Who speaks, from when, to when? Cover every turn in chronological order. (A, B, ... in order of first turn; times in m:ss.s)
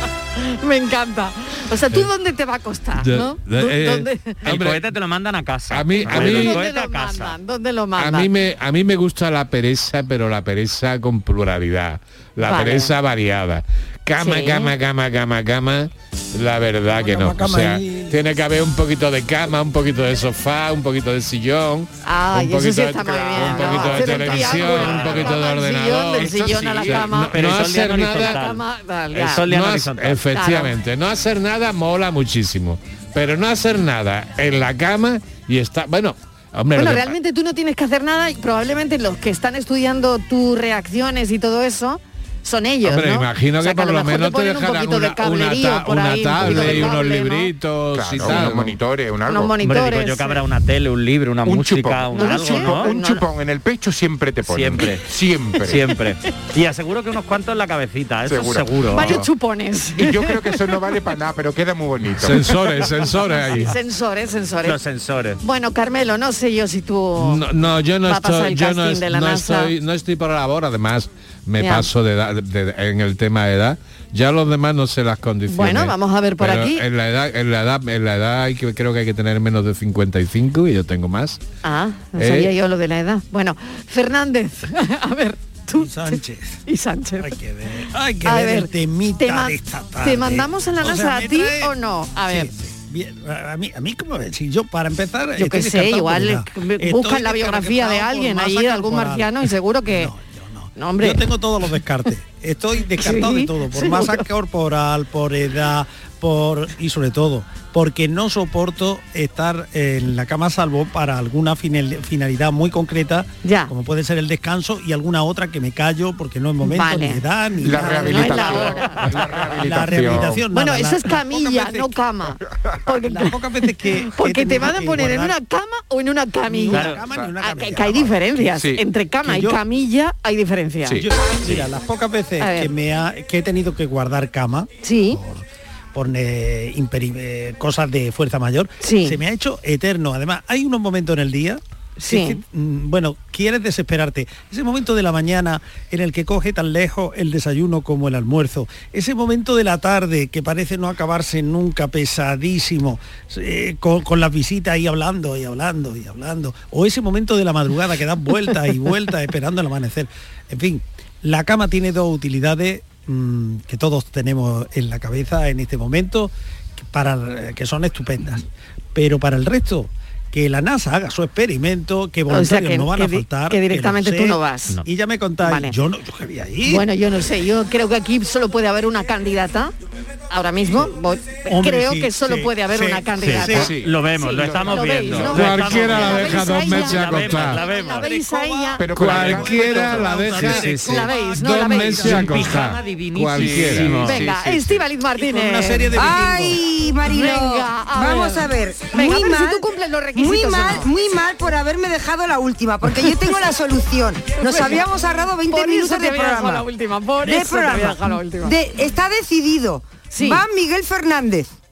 0:00.4-0:04.4 A
0:03.0-0:04.8 B
0:04.4-0:07.4 C
0:05.7-0:06.6 B
0:06.0-0:08.3 A
0:08.0-0:28.4 B
0:12.4-0:12.9 A
0:14.2-0:14.7 A
0:16.9-0:18.2 D
0:22.0-0:29.5 A
0:23.2-0:25.2 E
0:24.3-0:25.3 C
0:26.2-0:27.1 E
0:27.1-0:28.6 C
0:29.1-0:30.2 C
0:29.4-0:37.1 B
0:30.3-0:30.7 A
0:36.8-0:47.5 A
0:42.8-0:48.8 B
0:46.4-0:46.9 E
0:47.9-0:49.5 E
0:49.3-0:50.4 A
0:49.6-0:52.9 C
0:51.4-0:55.8 E
0:52.1-0:53.2 A
0:54.4-0:55.0 C
0:55.6-0:59.2 C
0:58.3-0:59.3 E
0:58.9-1:00.4 A
1:00.0-1:02.5 E
1:02.2-1:03.8 B
1:03.3-1:04.8 A
1:04.6-1:05.4 C
1:05.4-1:07.4 A
1:07.2-1:21.4 B
1:08.0-1:09.7 A
1:11.6-1:11.9 A
1:15.5-1:16.8 A
1:21.6-1:27.3 A
1:22.2-1:22.5 B
1:25.8-1:26.6 D
1:27.2-1:58.7 D
1:28.2-1:32.5 A
1:35.4-1:40.1 A
1:40.8-1:41.2 A
1:43.0-1:44.2 A
1:53.4-1:53.7 A
1:56.6-1:57.2 A
1:57.6-2:00.4 E
1:57.8-1:59.1 A
1:59.6-2:01.9 D
2:00.5-2:11.0 A
2:03.0-2:05.4 D
2:06.5-2:08.2 D
2:06.7-2:07.0 C
2:08.5-2:08.8 E
2:09.2-2:09.6 D
2:11.0-2:56.8 D
2:12.4-2:12.7 A
2:14.8-2:15.2 A
2:18.8-2:19.2 A
2:22.0-2:22.4 A
2:52.3-2:54.8 A
2:55.4-2:55.8 A
2:56.6-2:59.7 A
3:00.3-3:08.9 A
3:01.5-3:03.7 D
3:03.2-3:08.1 C
3:03.5-3:05.4 E
3:05.3-3:07.6 B
3:07.7-3:12.5 D
3:08.8-3:10.4 E
3:08.9-3:14.1 B
3:10.6-3:11.0 C
3:10.7-3:12.5 A
3:12.0-3:14.2 C
3:13.3-3:14.9 E
3:13.9-3:16.2 A
3:15.2-3:16.6 D
3:15.9-3:26.6 F
3:17.1-3:20.9 A
3:24.4-3:24.8 A
3:25.5-3:28.5 A
3:27.2-3:31.5 F
3:30.1-3:30.4 A